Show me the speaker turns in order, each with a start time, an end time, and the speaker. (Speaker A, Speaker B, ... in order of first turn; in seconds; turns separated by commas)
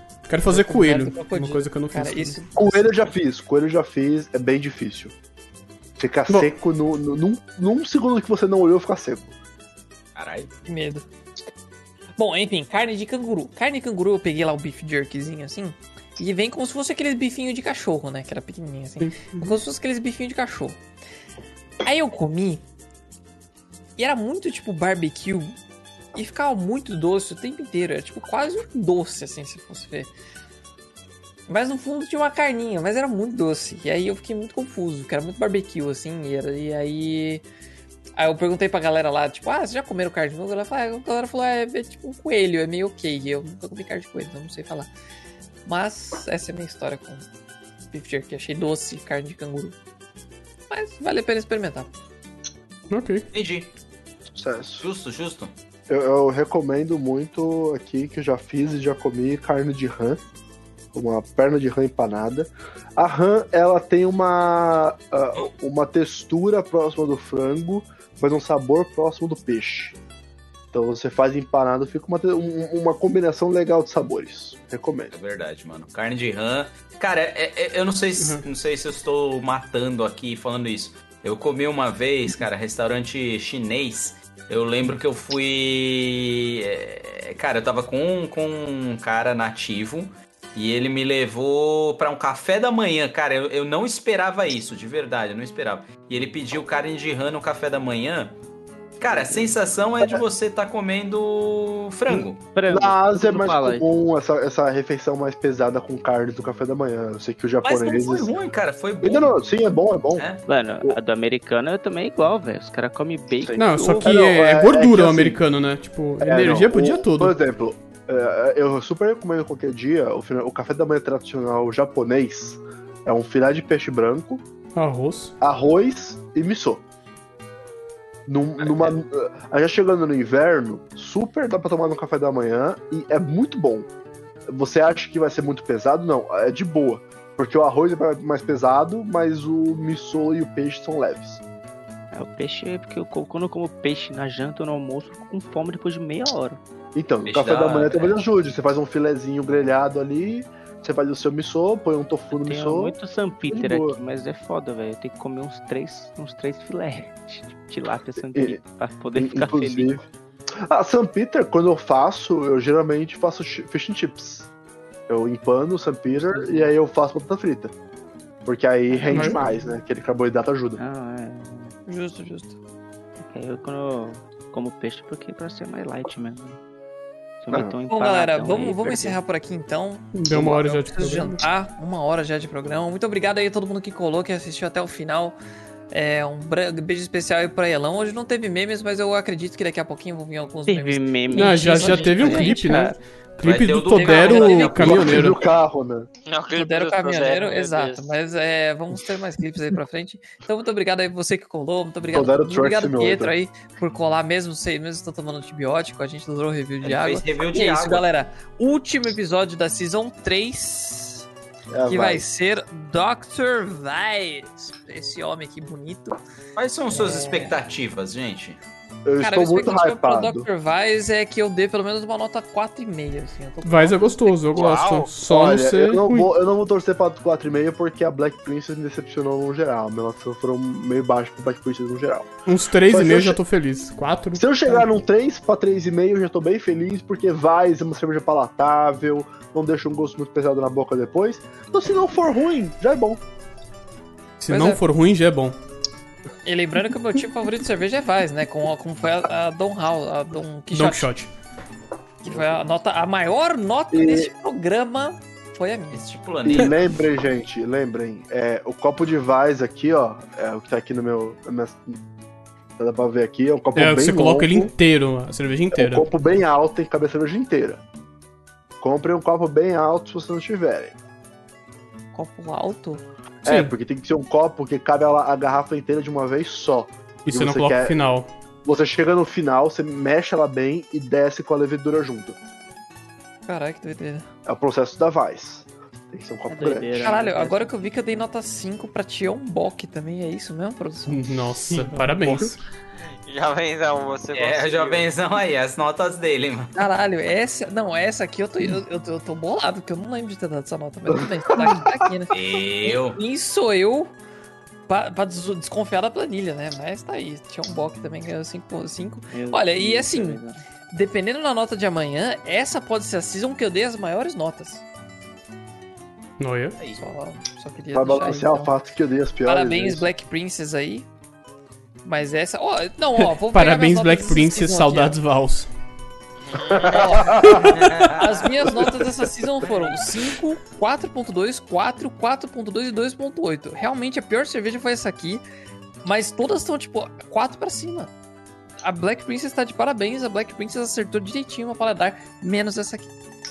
Speaker A: 0.3-2.4, Speaker B: 0.5-2.7, Speaker C: 2.6-5.1, Speaker C: 6.0-9.3, Speaker D: 10.2-10.5, Speaker B: 10.7-11.1, Speaker B: 12.2-20.8, Speaker A: 19.0-19.5, Speaker B: 21.8-22.6, Speaker B: 24.0-25.6, Speaker B: 26.1-30.1, Speaker B: 31.5-37.4, Speaker B: 38.2-44.9, Speaker B: 45.7-47.3, Speaker B: 47.9-49.8, Speaker B: 50.7-51.9, Speaker A: 52.9-53.3, Speaker D: 53.3-53.7, Speaker C: 54.3-54.9, Speaker D: 54.8-55.5, Speaker C: 55.9-60.2, Speaker C: 60.9-70.0, Speaker C: 70.7-75.1, Speaker D: 75.1-98.4, Speaker A: 78.2-78.4, Speaker D: 99.0-102.5, Speaker E: 99.1-99.6, Speaker E: 102.1-103.9, Speaker C: 102.7-108.3, Speaker D: 107.6-109.3, Speaker C: 109.0-110.3, Speaker D: 110.2-110.5, Speaker E: 110.5-114.2, Speaker C: 113.4-115.4, Speaker A: 113.6-117.4, Speaker C: 116.2-124.4, Speaker A: 124.8-125.3, Speaker C: 125.4-126.8, Speaker C: 128.3-133.9, Speaker C: 134.5-141.4, Speaker E: 142.1-146.6, Speaker C: 146.9-154.0, Speaker D: 147.3-148.2, Speaker E: 152.3-160.0, Speaker C: 158.2-158.6, Speaker C: 159.2-160.0, Speaker C: 160.6-164.5, Speaker C: 165.1-167.7, Speaker E: 166.1-166.7, Speaker C: 168.5-170.8, Speaker E: 168.9-169.8, Speaker A: 169.1-169.4, Speaker E: 170.8-171.7, Speaker B: 171.9-172.6, Speaker E: 173.2-176.6, Speaker E: 177.4-179.2, Speaker C: 177.5-177.8, Speaker B: 177.9-185.4, Speaker A: 180.1-181.4, Speaker B: 185.9-192.8, Speaker E: 190.7-193.0, Speaker A: 191.3-195.4, Speaker D: 193.4-195.4, Speaker B: 194.0-194.9, Speaker C: 194.8-196.1, Speaker F: 196.3-198.1, Speaker B: 196.5-211.3, Speaker C: 202.1-203.3, Speaker D: 206.8-208.1, Speaker C: 211.7-212.2, Speaker B: 211.9-216.2, Speaker D: 216.6-218.6, Speaker B: 216.9-217.6, Speaker C: 219.1-220.5, Speaker B: 219.2-224.4, Speaker A: 223.7-226.3, Speaker F: 224.5-225.1, Speaker C: 225.3-232.3, Speaker A: 232.5-234.7, Speaker C: 232.9-233.4, Speaker C: 234.4-243.2, Speaker A: 244.4-245.6, Speaker B: 244.5-244.8, Speaker B: 246.4-251.1, Speaker A: 250.7-251.3, Speaker B: 252.2-256.2, Speaker C: 252.3-252.7, Speaker C: 253.9-254.3, Speaker D: 256.1-256.9, Speaker C: 256.4-262.0, Speaker C: 262.8-264.7, Speaker A: 263.8-266.1, Speaker C: 265.7-267.8, Speaker C: 268.8-271.0, Speaker B: 272.1-273.0, Speaker C: 273.4-278.0, Speaker A: 273.4-273.7, Speaker A: 277.3-278.3, Speaker C: 278.6-282.4, Speaker B: 283.5-284.2, Speaker C: 284.5-287.2, Speaker E: 286.5-288.2, Speaker B: 287.0-291.2, Speaker A: 291.1-292.6, Speaker C: 292.2-292.5, Speaker F: 293.0-295.1, Speaker D: 294.3-296.8, Speaker B: 296.8-304.1, Speaker C: 301.1-301.9, Speaker D: 302.3-303.2, Speaker B: 304.9-310.4, Speaker E: 309.3-310.6, Speaker B: 310.9-314.8, Speaker A: 316.4-316.8, Speaker D: 316.8-317.0, Speaker B: 317.0-318.7, Speaker C: 317.9-320.1, Speaker B: 319.4-321.1, Speaker B: 322.0-325.2, Speaker A: 323.5-325.7, Speaker F: 326.5-327.4, Speaker C: 326.7-327.8, Speaker B: 326.8-335.4, Speaker D: 327.6-328.5, Speaker C: 328.7-329.1, Speaker B: 336.0-338.1, Speaker B: 338.8-343.1